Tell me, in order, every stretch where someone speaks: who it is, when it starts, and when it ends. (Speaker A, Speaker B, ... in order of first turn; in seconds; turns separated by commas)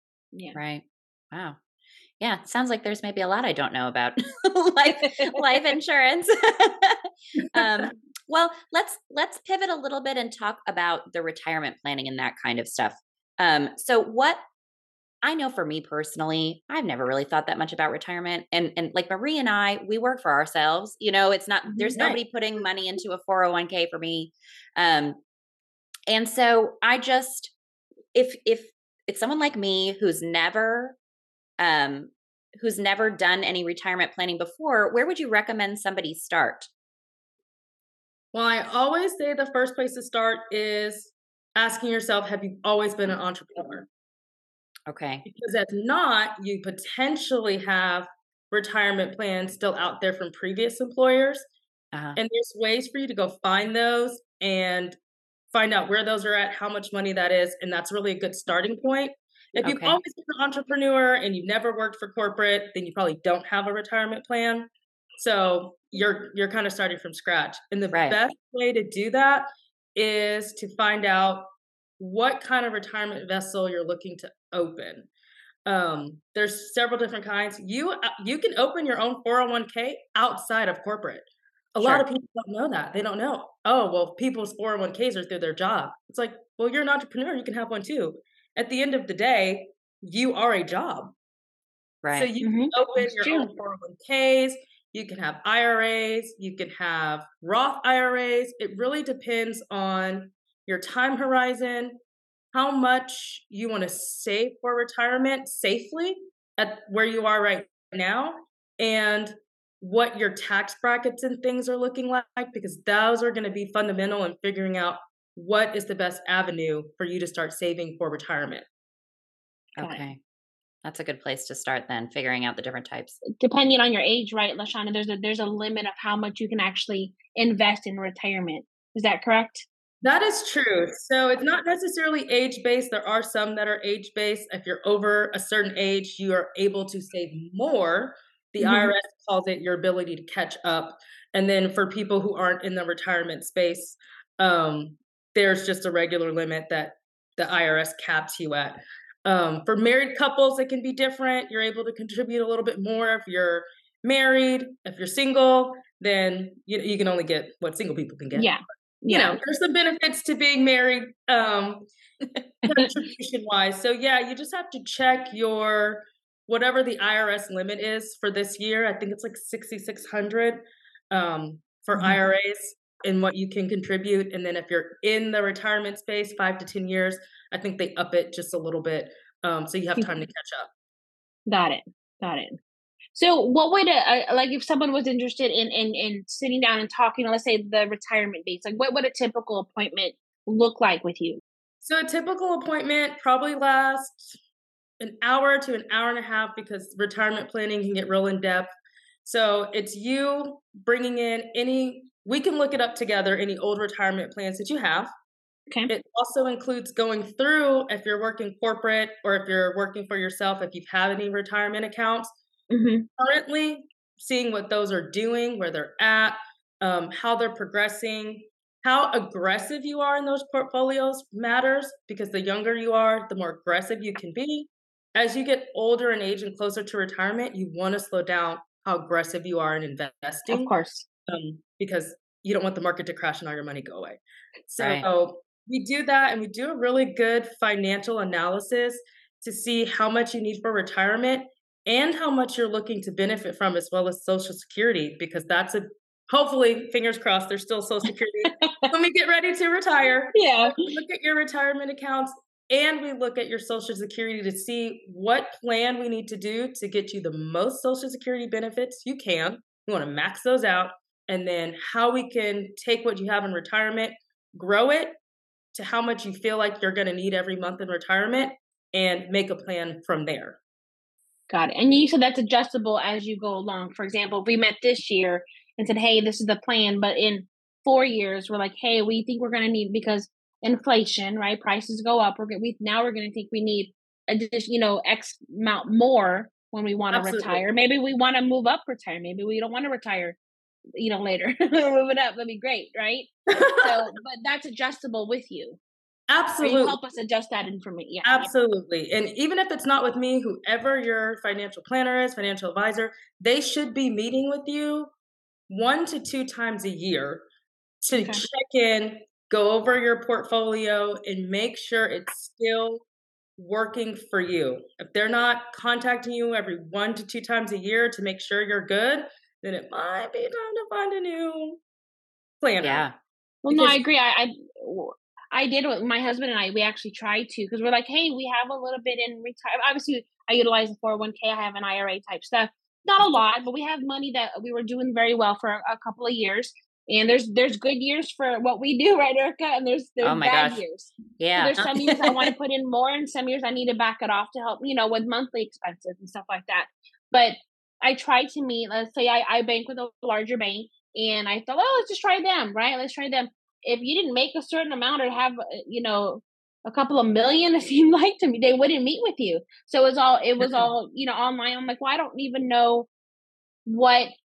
Speaker A: 0.3-0.6, Speaker B: 0.5-1.6, Speaker B: 2.2-14.4, Speaker A: 4.9-5.6, Speaker B: 15.2-25.2, Speaker C: 21.9-22.2, Speaker B: 26.1-27.5, Speaker B: 28.1-31.0, Speaker B: 31.6-36.7, Speaker C: 38.3-43.9, Speaker B: 44.9-45.2, Speaker C: 45.2-51.4, Speaker B: 51.9-52.2, Speaker C: 52.1-55.0, Speaker C: 55.5-75.1, Speaker B: 59.6-60.0, Speaker B: 67.9-68.2, Speaker C: 75.7-91.1, Speaker B: 92.0-92.3, Speaker C: 92.1-102.0, Speaker A: 92.4-93.5, Speaker C: 102.5-118.7, Speaker B: 119.8-120.2, Speaker A: 119.8-120.1, Speaker B: 120.8-123.2, Speaker A: 123.2-129.7, Speaker C: 130.0-158.5, Speaker A: 138.6-138.9, Speaker A: 158.3-159.4, Speaker C: 159.1-161.9, Speaker C: 162.6-170.6, Speaker C: 171.1-180.7, Speaker A: 171.9-172.2, Speaker A: 181.5-182.6, Speaker A: 183.1-191.4, Speaker C: 191.8-194.4, Speaker C: 195.0-198.7, Speaker C: 199.2-205.1, Speaker C: 205.9-212.3, Speaker A: 212.7-213.1, Speaker C: 213.2-230.7, Speaker A: 230.5-231.1, Speaker C: 231.3-265.2, Speaker B: 234.8-235.0, Speaker A: 248.5-248.9, Speaker A: 250.3-250.8, Speaker C: 265.7-270.6, Speaker A: 271.5-290.4, Speaker C: 287.1-287.6, Speaker A: 291.0-295.8, Speaker C: 293.5-293.9, Speaker C: 296.3-297.0, Speaker A: 296.6-298.5, Speaker C: 298.2-305.1, Speaker C: 305.7-307.4, Speaker C: 308.0-313.0, Speaker A: 308.1-308.4, Speaker C: 313.6-321.8, Speaker C: 322.6-323.1, Speaker B: 322.8-323.1, Speaker A: 323.6-363.1, Speaker C: 323.7-324.0, Speaker B: 340.2-340.8, Speaker B: 341.4-342.3, Speaker C: 341.8-342.0, Speaker C: 360.6-360.9, Speaker A: 363.9-364.3